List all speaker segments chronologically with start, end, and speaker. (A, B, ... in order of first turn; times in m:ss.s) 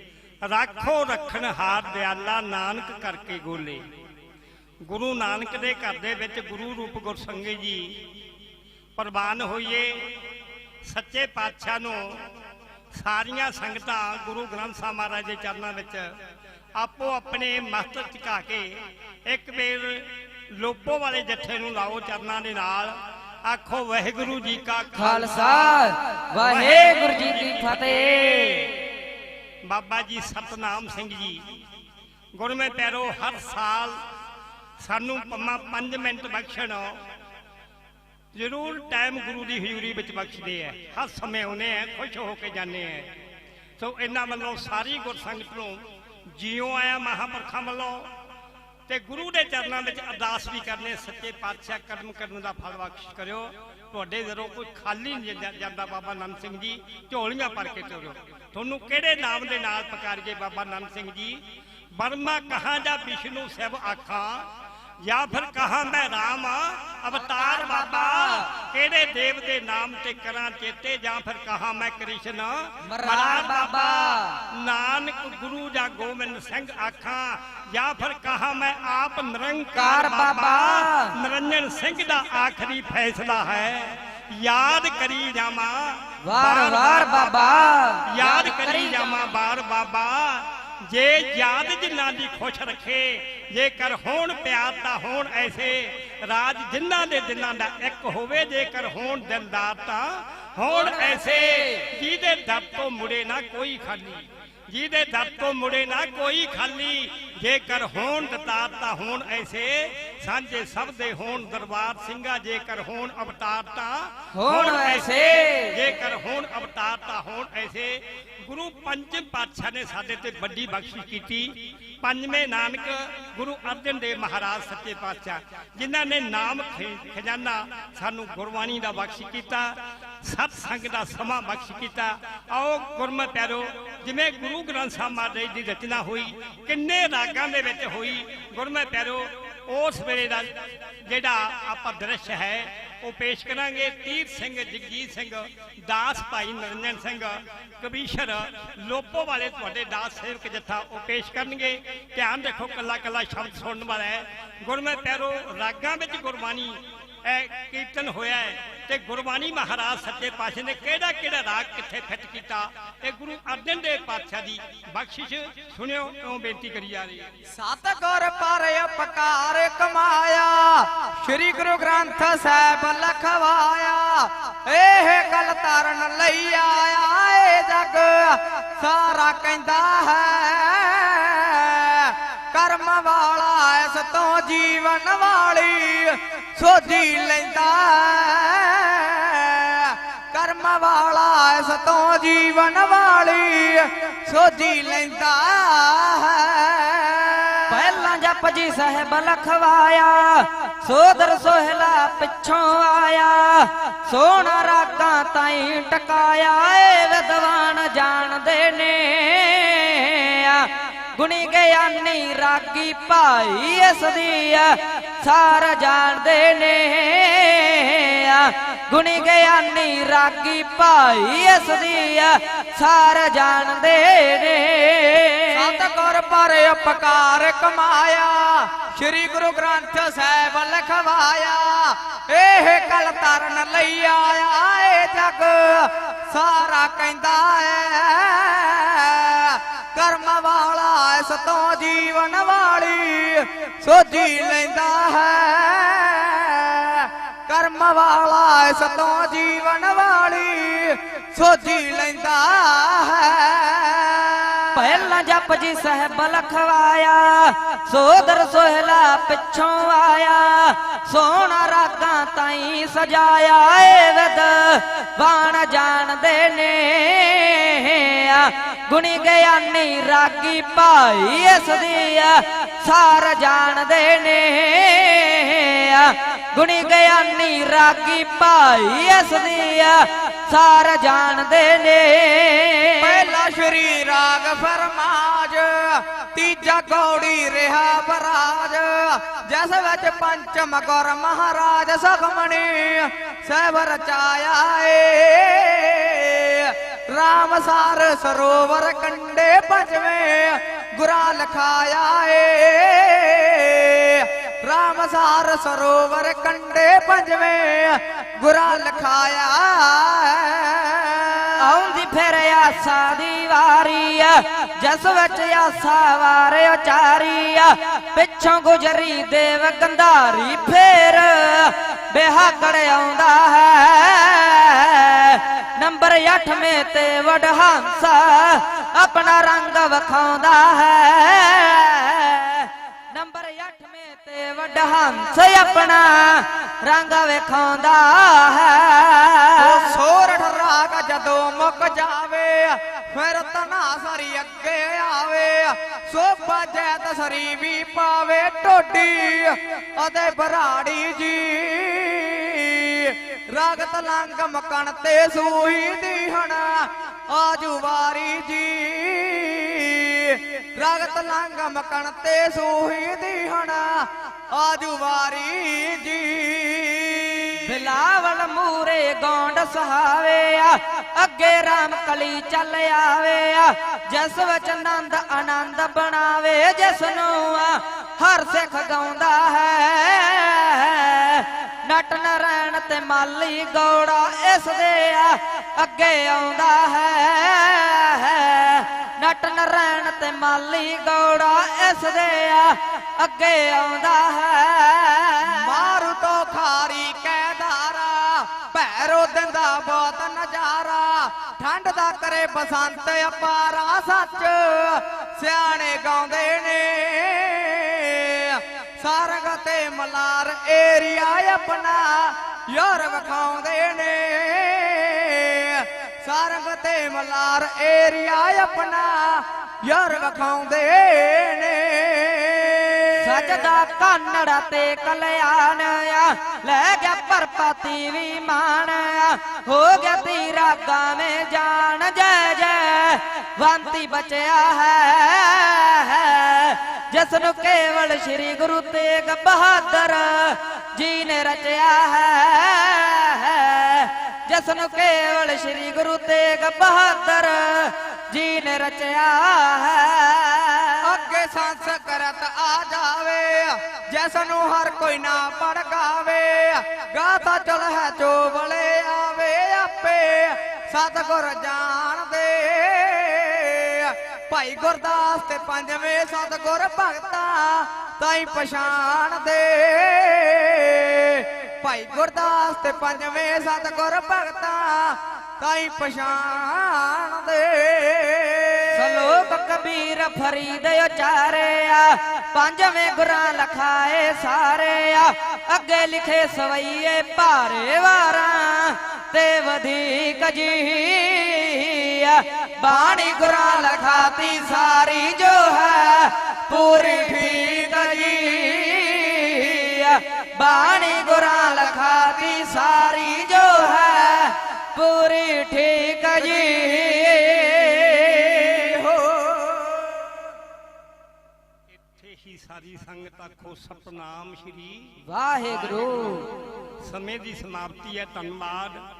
0:00.4-0:03.8 A
0:04.9-0:07.9 A
0:09.0-0:10.1 A
0:10.8-0:12.3 A
0:13.0-0:16.1 A
0:16.8-0:25.8 A
0:25.0-0:28.8 B
0:26.4-0:27.3 A
0:29.6-0:31.4 A
0:32.4-0:34.0 A
0:34.8-0:37.0 A
0:38.3-0:43.1 A
0:43.8-0:45.8 A
0:46.3-0:48.1 A
0:48.9-1:01.4 A
1:02.0-1:04.4 A
1:05.0-1:27.5 A
1:07.2-1:08.5 B
1:12.9-1:14.4 B
1:19.8-1:21.2 B
1:26.2-1:29.2 B
1:28.0-2:09.7 A
1:40.8-1:41.8 B
1:54.3-1:55.8 B
2:10.2-2:47.3 A
2:47.5-3:17.8 C
3:17.7-3:45.8 B
3:45.5-4:15.0 C
4:14.7-4:43.3 B
4:43.0-5:11.5 C
5:11.6-5:39.9 B
5:39.6-6:07.8 C
6:07.6-6:35.9 B
6:35.4-7:03.7 C
7:03.2-7:31.0 B
7:31.0-7:59.3 C
7:58.9-8:29.0 B
8:28.9-8:29.9 C
8:31.9-8:35.2 A
8:35.2-8:36.5 B
8:37.0-8:39.0 A